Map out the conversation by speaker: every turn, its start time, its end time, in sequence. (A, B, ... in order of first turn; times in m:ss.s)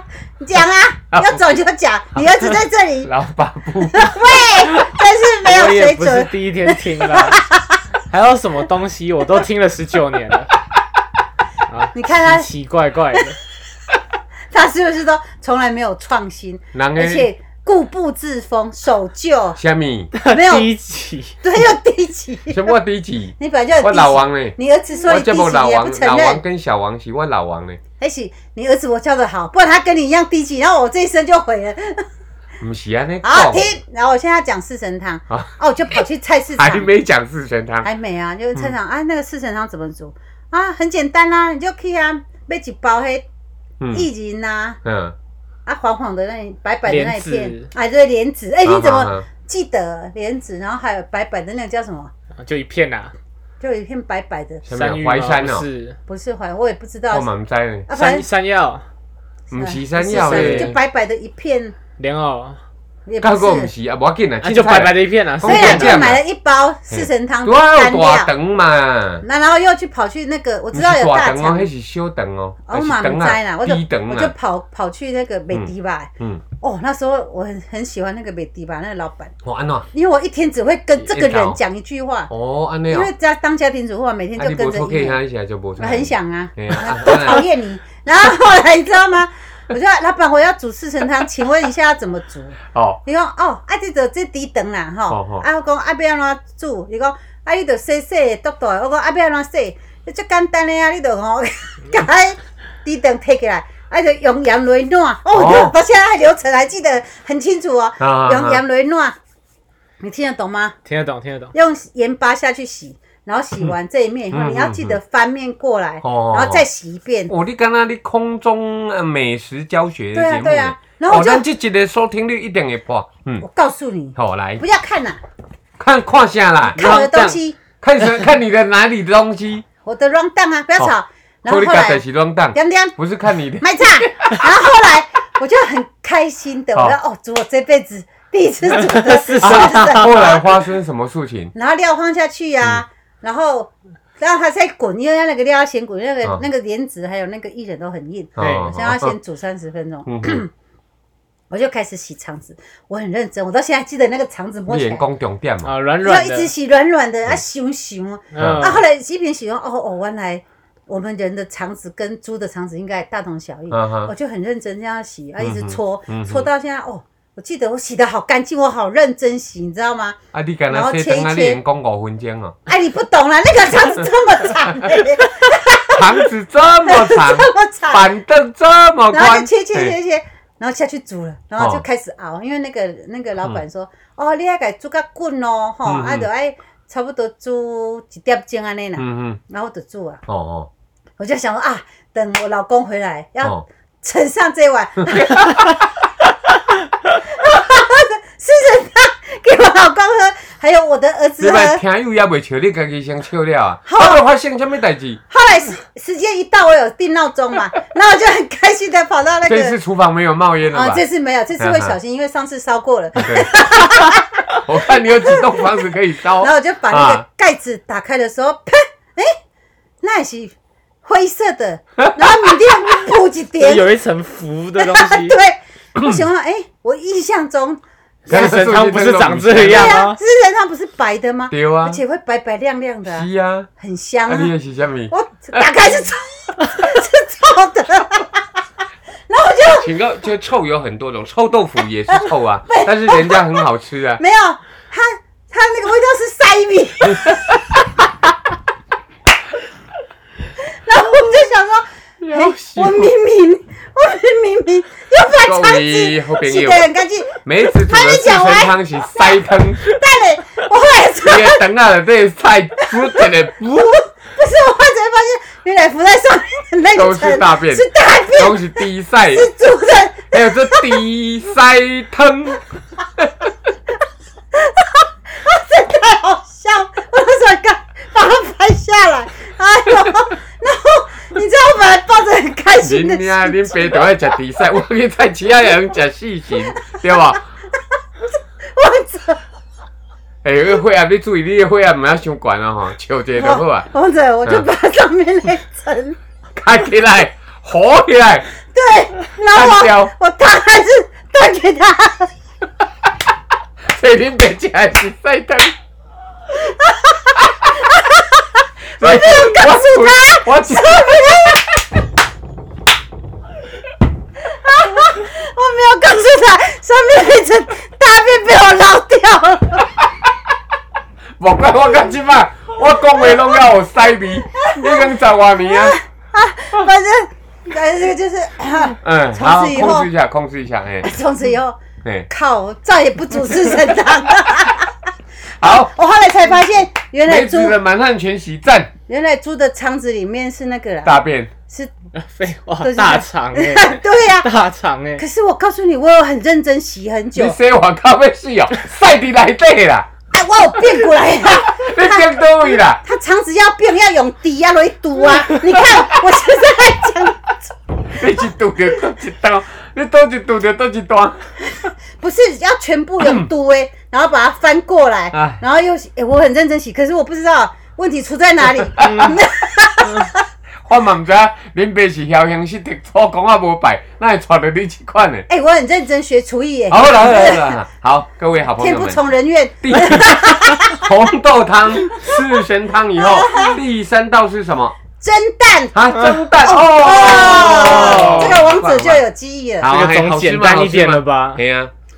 0:00.4-0:03.1 A
0:01.1-0:01.4 B
0:02.2-0:02.4 B
0:03.0-0:04.4 B
0:03.9-0:07.8 A
0:05.4-0:07.4 C
0:08.1-0:10.5 C
0:11.7-0:13.4 C
0:11.9-0:12.5 A
0:14.5-0:19.6 A
0:16.7-0:17.3 B
0:19.6-0:20.1 B
0:20.1-0:21.4 C
0:20.3-0:20.7 A
0:21.4-0:22.7 A
0:22.5-0:27.8 B
0:23.4-0:26.4 A
0:28.0-0:32.1 A
0:32.6-0:33.8 B
0:33.2-0:36.9 A
0:36.6-0:37.9 B
0:37.8-0:43.3 A
0:43.8-0:44.1 B
0:43.9-0:44.8 A
0:44.8-0:45.2 B
0:45.7-0:52.1 A
0:46.9-0:47.7 C
0:48.6-0:49.3 B
0:52.4-0:53.1 C
0:53.6-0:54.6 A
0:54.7-0:55.7 B
0:54.7-0:56.0 C
0:56.1-0:57.3 A
0:57.1-0:57.9 B
0:57.9-0:58.3 A
0:57.9-0:58.8 C
0:59.5-1:00.8 B
0:59.6-1:01.8 A
1:00.1-1:00.8 C
1:02.0-1:02.6 C
1:03.1-1:03.7 A
1:03.2-1:06.2 B
1:04.4-1:06.1 C
1:05.4-1:08.3 A
1:06.9-1:09.2 B
1:09.2-1:11.7 A
1:10.7-1:14.3 B
1:12.7-1:19.3 A
1:15.5-1:16.4 B
1:19.4-1:19.9 B
1:19.9-1:22.3 A
1:21.0-1:21.6 B
1:22.3-1:23.1 B
1:22.9-1:25.2 A
1:24.4-1:27.4 B
1:25.8-1:49.2 A
1:32.7-1:33.0 B
1:35.1-1:35.4 B
1:45.3-1:45.7 B
1:48.0-1:48.6 B
1:50.0-1:50.8 A
1:50.9-1:51.5 C
1:51.5-1:57.3 A
1:54.3-1:55.0 B
1:56.0-1:56.6 B
1:57.3-2:03.5 B
2:00.1-2:01.4 A
2:03.4-2:05.2 A
2:04.2-2:04.6 B
2:05.8-2:07.0 B
2:06.7-2:07.6 A
2:06.8-2:07.4 C
2:07.8-2:09.6 B
2:09.8-2:12.0 A
2:11.5-2:13.8 B
2:12.5-2:13.0 A
2:13.6-2:20.6 A
2:18.7-2:20.1 C
2:19.4-2:21.5 B
2:21.6-2:30.5 A
2:28.4-2:29.2 B
2:28.4-2:28.7 C
2:30.1-2:30.4 B
2:31.5-2:35.0 A
2:34.7-2:35.7 B
2:35.6-2:36.5 C
2:36.0-2:50.2 A
2:38.3-2:38.8 C
2:38.4-2:38.7 B
2:43.7-2:44.1 B
2:45.4-2:46.5 B
2:50.3-2:52.6 B
2:50.7-2:51.6 A
2:52.7-2:56.3 A
2:55.8-3:00.0 B
2:56.9-2:58.1 A
2:59.1-3:10.2 A
3:01.6-3:01.8 B
3:05.8-3:06.3 B
3:09.0-3:09.4 B
3:10.3-3:10.7 B
3:11.2-3:15.7 A
3:15.1-3:15.8 B
3:17.2-3:21.8 A
3:21.4-3:25.2 B
3:23.9-3:24.2 A
3:25.3-3:29.8 A
3:29.4-3:31.0 B
3:30.7-3:34.4 A
3:31.6-3:32.0 B
3:33.2-3:37.2 B
3:35.3-3:35.7 A
3:36.4-3:39.4 A
3:40.0-3:43.9 A
3:42.0-3:42.3 B
3:43.6-3:45.4 C
3:44.8-3:47.8 A
3:48.3-3:50.0 B
3:48.3-3:50.2 C
3:49.7-3:53.3 A
3:51.5-3:52.0 B
3:53.1-3:53.7 B
3:53.8-3:54.5 A
3:54.3-3:55.7 B
3:55.1-3:58.4 A
3:59.3-3:59.9 A
3:59.7-4:04.2 B
4:02.1-4:03.6 A
4:04.2-4:07.5 A
4:07.1-4:07.4 B
4:10.8-4:21.6 A
4:12.2-4:13.1 B
4:15.4-4:16.8 B
4:17.4-4:20.0 B
4:21.2-4:24.0 B
4:22.9-4:23.3 A
4:24.3-4:31.0 A
4:26.9-4:29.5 B
4:30.3-4:32.6 B
4:34.5-4:44.3 A
4:42.8-4:47.4 B
4:48.8-4:49.4 A
4:50.4-4:53.9 B
4:53.4-4:56.2 A
4:56.6-4:58.5 B
4:58.7-5:02.3 A
4:59.5-5:00.1 B
5:03.9-5:05.7 B
5:06.6-5:08.4 A
5:09.0-5:11.3 B
5:09.0-5:11.6 A
5:14.5-5:19.9 A
5:21.4-5:26.0 B
5:24.6-5:30.1 A
5:29.0-5:31.1 B
5:31.0-5:31.8 A
5:32.0-5:32.3 B
5:32.3-5:34.9 A
5:35.6-5:35.9 B
5:35.6-5:37.8 A
5:37.2-5:38.9 B
5:39.1-5:41.9 A
5:41.0-5:41.5 B
5:42.2-5:45.2 C
5:42.8-5:44.5 A
5:45.2-5:47.6 A
5:47.3-5:50.1 B
5:50.3-5:57.7 A
5:51.6-5:53.0 B
5:58.1-6:01.5 B
6:02.2-6:10.4 A
6:03.2-6:03.5 B
6:05.3-6:05.6 B
6:09.0-6:09.3 B
6:10.8-6:15.5 B
6:15.5-6:17.8 A
6:16.9-6:19.2 B
6:18.8-6:21.1 A
6:19.8-6:25.0 B
6:23.2-6:23.8 A
6:25.2-6:26.0 A
6:25.9-6:29.2 B
6:26.1-6:26.4 C
6:26.6-6:29.9 A
6:27.3-6:28.6 C
6:29.8-6:31.9 B
6:29.8-6:31.6 C